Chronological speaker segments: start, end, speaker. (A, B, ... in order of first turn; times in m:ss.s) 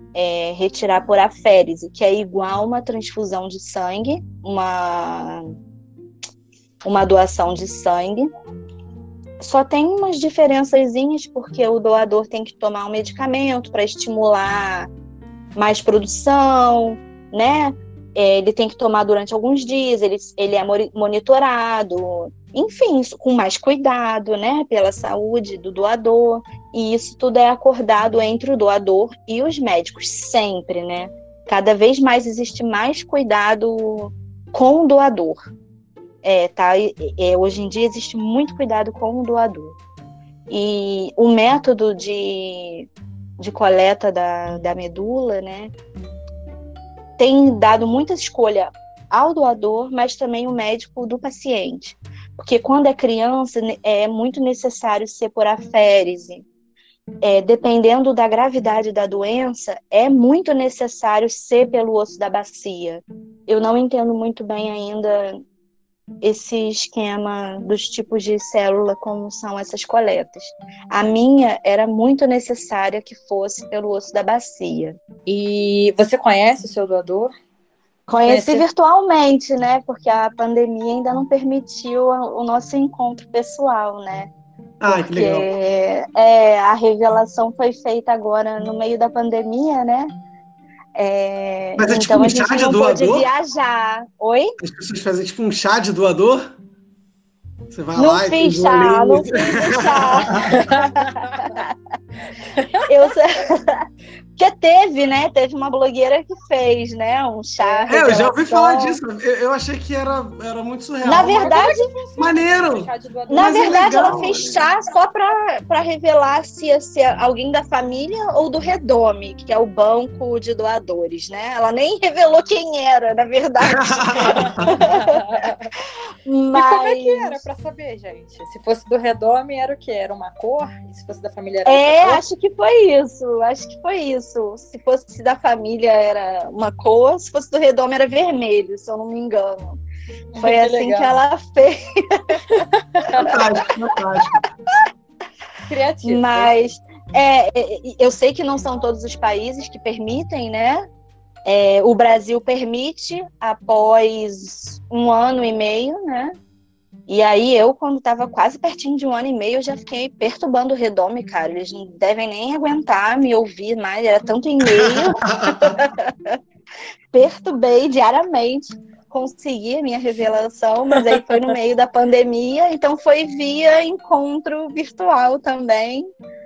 0:00.1-0:05.4 A
0:06.8-0:08.3 A
0:09.4-0:14.9 A
0:15.6-0:35.5 A
0:36.2-0:39.8 A
0:40.5-0:45.7 A
0:47.2-0:56.5 A
0:57.2-1:05.4 A
1:06.2-1:15.0 A
1:15.3-1:17.3 B
1:18.1-1:24.3 A
1:18.3-1:18.6 B
1:24.8-1:25.5 C
1:24.9-1:30.1 A
1:31.0-1:34.5 A
1:31.8-1:33.3 C
1:34.6-1:36.5 C
1:37.7-1:40.6 C
1:38.0-1:41.7 A
1:40.5-1:41.6 B
1:42.5-1:42.9 B
1:42.9-1:43.8 A
1:44.4-1:49.0 A
1:47.6-1:48.0 B
1:47.9-1:51.6 C
1:51.0-1:51.8 A
1:51.2-1:54.0 B
1:52.2-1:54.6 C
1:53.3-2:05.2 A
2:03.7-2:04.8 C
2:04.3-2:05.7 B
2:06.2-2:07.4 A
2:06.5-2:12.2 B
2:11.7-2:19.8 A
2:20.3-2:21.2 B
2:20.4-2:22.4 A
2:22.5-2:23.5 B
2:23.2-2:24.4 C
2:25.7-2:26.6 B
2:26.0-2:30.9 A
2:31.5-2:36.4 A
2:37.1-2:46.4 A
2:44.7-2:45.8 C
2:47.1-2:56.1 A